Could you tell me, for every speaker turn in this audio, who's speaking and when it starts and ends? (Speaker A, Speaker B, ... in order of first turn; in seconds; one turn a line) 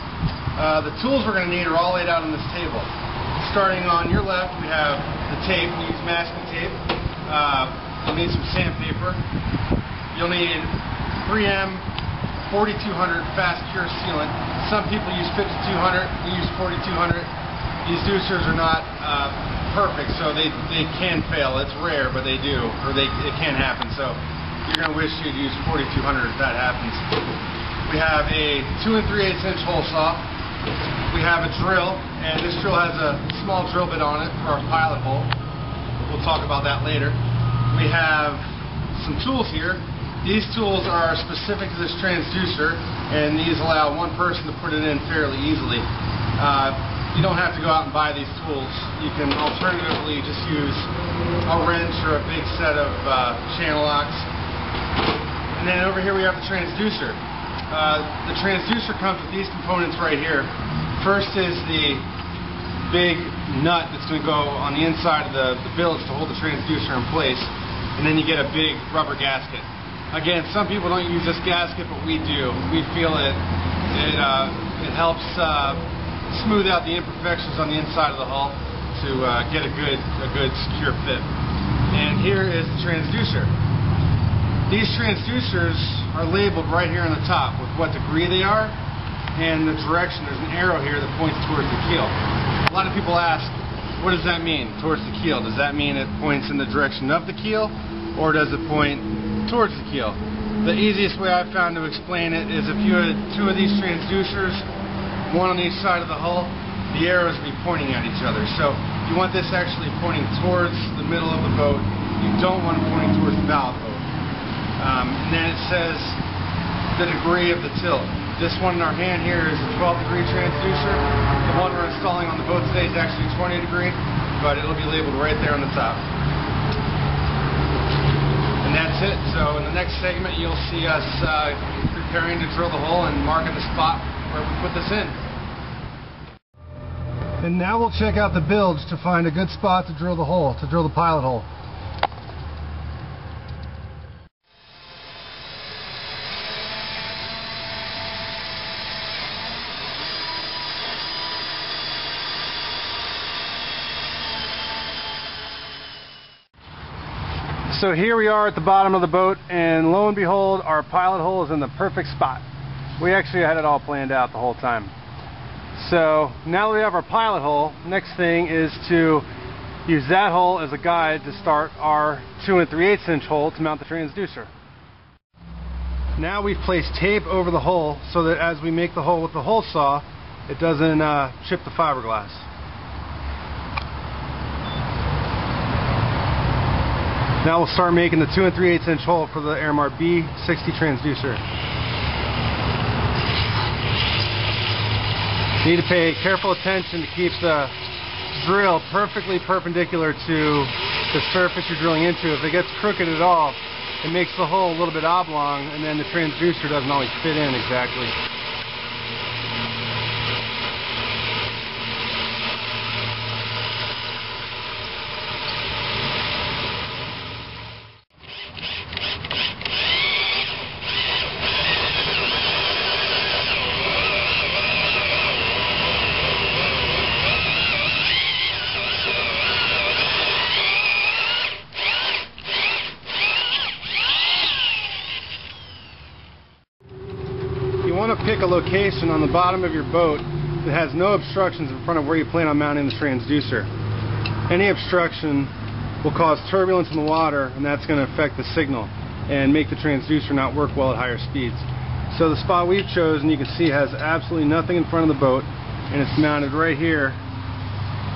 Speaker A: 0.6-9.2
Speaker A: 10.1-11.9
Speaker A: 12.4-17.3
Speaker A: 17.8-27.2
Speaker A: 27.8-30.3
Speaker A: 31.1-35.3
Speaker A: 36.0-50.9
Speaker A: 51.4-54.3
Speaker A: 55.5-62.1
Speaker A: 62.8-81.3
Speaker A: 81.9-83.5
Speaker A: 84.7-88.8
Speaker A: 89.3-104.7
Speaker A: 105.2-114.1
Speaker A: 114.8-116.2
Speaker A: 116.9-126.1
Speaker A: 128.6-135.2
Speaker A: 137.4-141.5
Speaker A: 157.7-162.4
Speaker A: 163.0-164.9
Speaker A: 165.7-169.3
Speaker A: 169.8-174.5
Speaker A: 176.2-182.5
Speaker A: 187.4-191.4
Speaker A: 195.6-197.8
Speaker A: 198.3-208.2
Speaker A: 237.8-243.7
Speaker A: 244.5-257.2